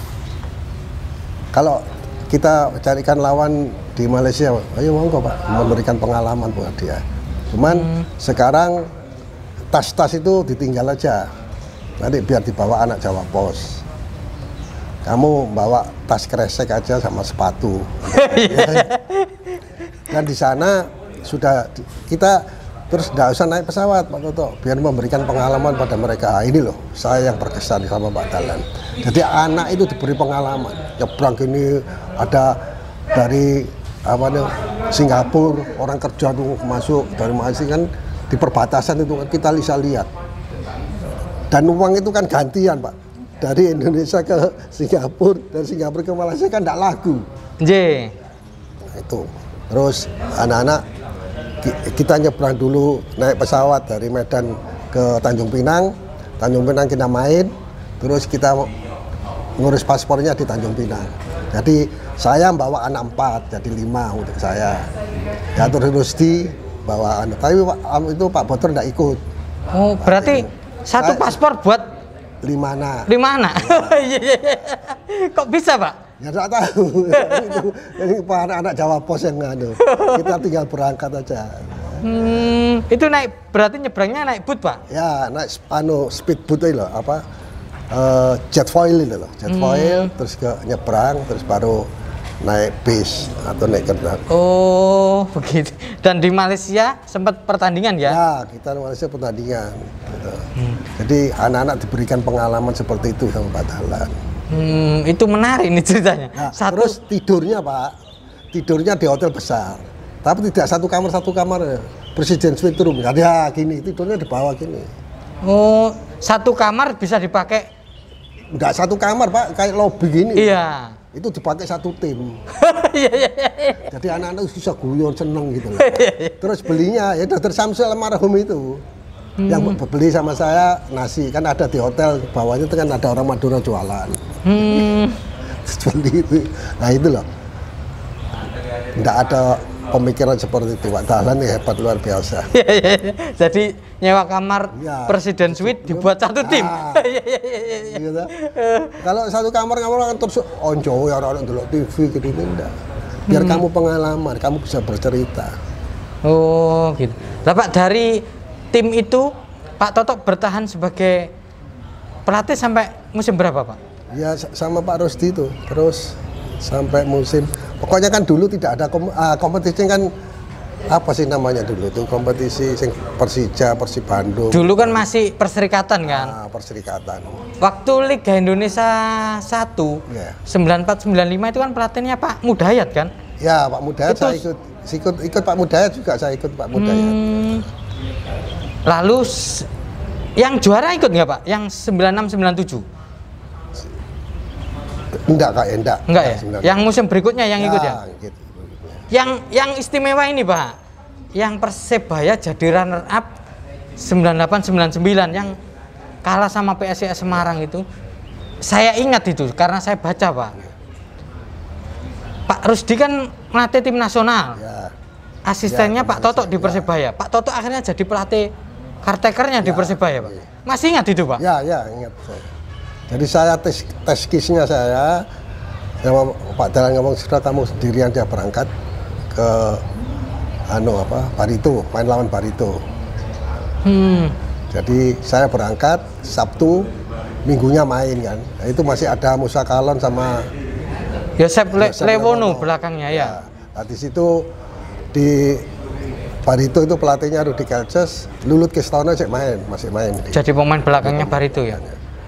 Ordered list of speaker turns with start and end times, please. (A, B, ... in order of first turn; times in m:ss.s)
0:01.5-0:08.9 A
0:07.7-0:08.1 B
0:09.7-0:11.3 A
0:12.0-0:13.8 A
0:15.0-0:18.9 A
0:18.1-0:19.5 B
0:20.1-0:32.6 A
0:33.1-0:40.1 A
0:41.5-0:47.3 A
0:47.6-0:48.1 B
0:48.8-0:50.8 A
0:51.6-0:58.7 A
0:59.6-1:04.9 A
1:05.5-1:09.2 A
1:09.7-1:11.8 B
1:10.0-1:11.4 A
1:12.4-1:14.0 A
1:13.1-1:16.0 B
1:16.2-1:22.2 A
1:17.1-1:17.6 B
1:19.8-1:20.3 B
1:22.0-1:24.8 B
1:24.9-1:27.2 A
1:27.9-1:31.9 A
1:29.5-1:30.1 B
1:32.4-1:34.2 A
1:34.3-1:38.2 B
1:38.0-1:44.2 A
1:44.5-1:47.0 B
1:46.4-1:48.0 A
1:48.5-1:54.9 A
1:55.4-1:57.7 B
1:58.5-2:00.6 A
2:00.4-2:01.0 B
2:01.1-2:02.4 A
2:02.5-2:03.9 B
2:03.8-2:08.8 A
2:05.7-2:06.4 B
2:09.4-2:09.8 B
2:09.5-2:15.0 A
2:14.4-2:15.2 B
2:15.6-2:17.3 A
2:19.0-2:22.5 A
2:22.5-2:29.0 B
2:24.7-2:27.1 A
2:27.8-2:28.3 A
2:29.0-2:32.7 A
2:33.3-2:33.6 B
2:33.3-2:35.5 A
2:36.2-2:41.3 B
2:42.2-2:43.8 B
2:44.1-2:50.1 A
2:50.9-2:55.0 A
2:54.5-2:56.4 B
2:56.0-2:57.4 A
2:57.6-3:03.1 B
3:00.1-3:00.4 A
3:03.4-3:07.5 A
3:04.0-3:04.4 B
3:06.7-3:07.7 B
3:08.9-3:09.7 B
3:10.4-3:12.8 B
3:15.2-3:16.8 A
3:16.1-3:18.0 B
3:17.6-3:19.1 A
3:19.1-3:20.7 B
3:21.4-3:23.3 B
3:24.0-3:25.6 B
3:26.2-3:27.8 B
3:28.6-3:30.6 B
3:32.5-3:34.6 B
3:34.6-3:34.9 A
3:35.5-3:38.5 B
3:35.6-3:36.9 A
3:39.0-3:41.4 B
3:39.6-3:40.5 A
3:41.4-3:42.5 A
3:43.1-3:45.2 A
3:46.0-3:48.7 A
3:49.3-3:49.8 A
3:50.7-3:52.8 A
3:53.8-3:54.4 B
3:54.7-3:56.9 A
3:57.4-4:00.5 A
4:01.4-4:03.4 B
4:01.7-4:04.5 A
4:05.1-4:05.7 A
4:06.4-4:10.5 A
4:10.3-4:11.8 B
4:11.0-4:12.0 A